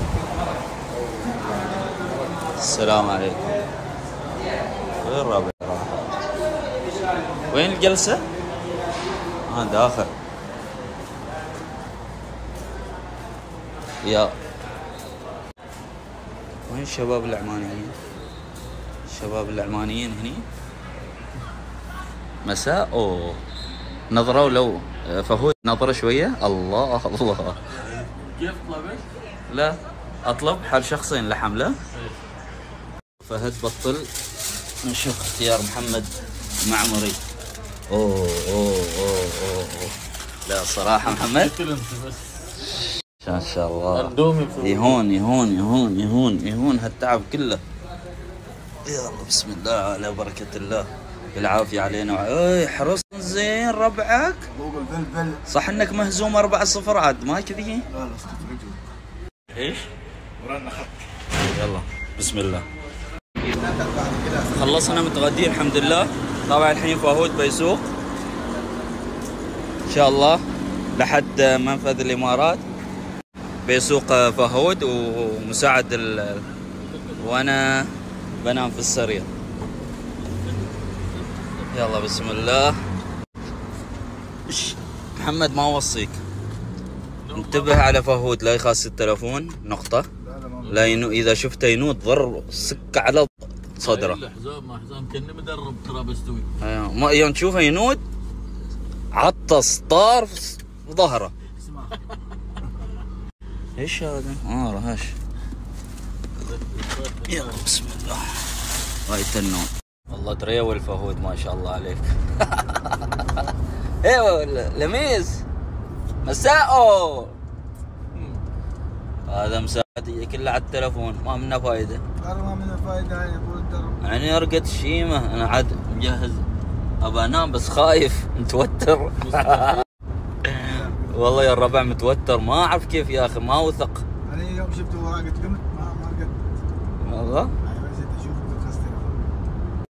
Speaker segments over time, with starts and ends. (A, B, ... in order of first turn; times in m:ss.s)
0:02.6-0:03.6 A
0:05.0-0:06.0 A
0:07.5-0:08.3 A
0:09.5-0:10.1 A
0:14.0-0:14.3 A
0:16.7-0:18.0 A
0:19.1-0:20.4 A
0:22.4-0:23.4 A
0:24.1-0:27.6 A
0:27.9-0:29.1 B
0:29.5-0:31.8 A
0:33.2-0:34.1 A
0:34.8-0:36.1 A
0:36.6-0:37.2 A
0:37.9-0:41.6 A
0:41.0-0:42.6 B
0:43.2-0:47.6 A
0:43.9-0:45.0 B
0:48.8-0:54.5 A
0:54.5-0:55.4 C
0:55.5-0:57.9 A
0:57.9-0:58.8 C
0:59.5-0:59.9 A
1:00.5-1:00.8 C
1:01.4-1:02.7 A
1:03.4-1:05.1 C
1:04.5-1:07.9 A
1:09.9-1:10.4 A
1:11.0-1:12.6 A
1:13.6-1:16.4 A
1:16.8-1:17.5 B
1:17.2-1:19.3 A
1:20.2-1:21.9 B
1:21.7-1:22.8 A
1:24.5-1:26.2 A
1:27.3-1:27.8 B
1:27.3-1:30.1 A
1:30.2-1:31.1 C
1:30.7-1:34.2 A
1:33.8-1:36.5 B
1:36.6-1:38.0 A
1:39.1-1:41.3 A
1:43.8-1:45.2 A
1:46.4-1:47.8 B
1:47.3-1:48.5 A
1:49.1-1:53.5 A
1:54.0-1:55.4 A
1:56.2-1:57.4 A
1:58.1-1:58.4 B
1:59.3-2:02.0 A
2:02.2-2:04.0 C
2:04.0-2:06.5 A
2:07.0-2:09.8 A
2:09.2-2:09.8 B
2:10.4-2:14.0 A
2:10.6-2:11.6 C
2:14.3-2:16.4 C
2:17.0-2:17.5 A
2:17.6-2:19.3 C